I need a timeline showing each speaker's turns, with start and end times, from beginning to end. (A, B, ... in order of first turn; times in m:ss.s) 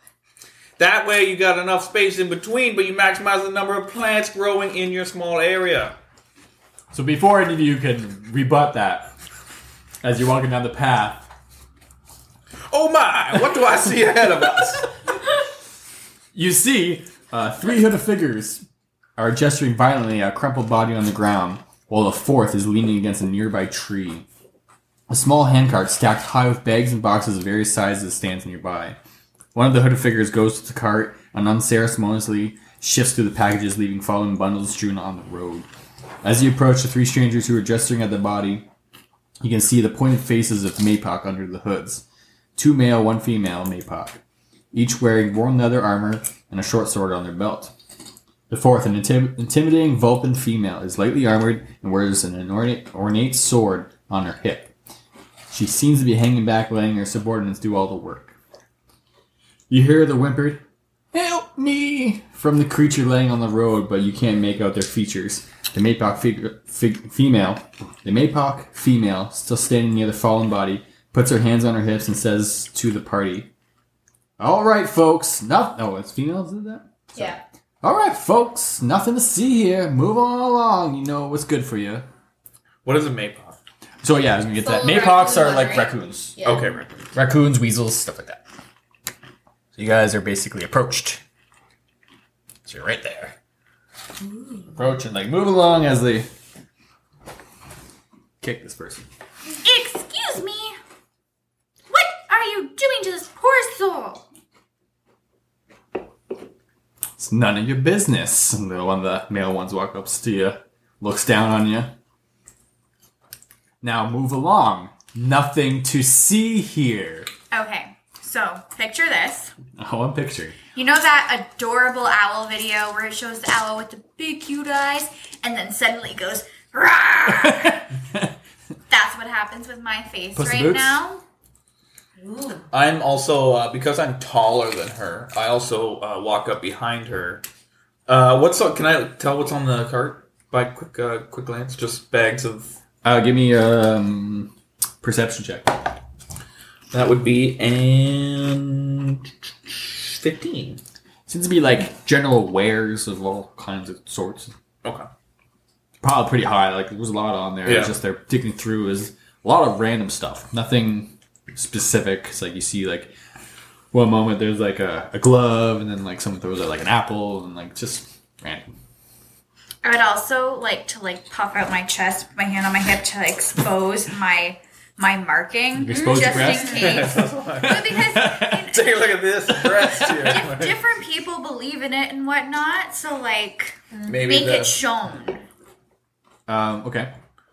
0:00.8-0:06.0 A
0:06.9-0:09.1 B
0:10.0-0:11.3 B
0:12.7-0:14.9 A
0:16.3-0:18.6 B
0:19.2-0:24.3 B
0:25.1-0:29.0 B
0:29.6-0:35.7 B
0:36.2-0:38.7 B
0:39.4-0:42.0 B
0:42.6-0:44.2 B
0:44.7-0:47.7 B
0:48.5-0:54.7 B
0:55.5-0:58.4 B
0:59.7-1:00.6 B
1:01.1-1:13.5 B
1:14.4-1:22.1 B
1:17.2-1:17.4 C
1:22.8-1:23.6 A
1:24.0-1:26.4 B
1:24.6-1:26.8 C
1:26.4-1:27.0 A
1:27.2-1:28.4 B
1:29.8-1:31.2 B
1:32.7-1:33.4 B
1:34.7-1:36.3 B
1:38.4-1:39.1 B
1:39.6-1:40.8 D
1:41.9-1:44.2 D
1:47.2-1:51.9 B
1:53.8-1:57.3 B
1:57.5-1:59.5 D
1:59.8-2:00.6 B
2:00.8-2:07.8 D
2:07.3-2:08.3 B
2:08.9-2:11.2 D
2:10.4-2:11.0 B
2:12.2-2:12.7 C
2:12.7-2:17.4 A
2:18.1-2:22.8 A
2:23.0-2:25.8 B
2:26.9-2:30.8 A
2:31.3-2:34.5 B
2:36.0-2:43.1 B
2:37.6-2:37.9 A
2:43.9-2:48.7 B
2:49.8-3:05.4 D
2:55.8-2:56.9 B
2:55.9-2:56.9 C
2:56.5-3:00.8 A
2:57.8-2:58.7 B
3:04.1-3:04.8 A
3:06.5-3:07.1 B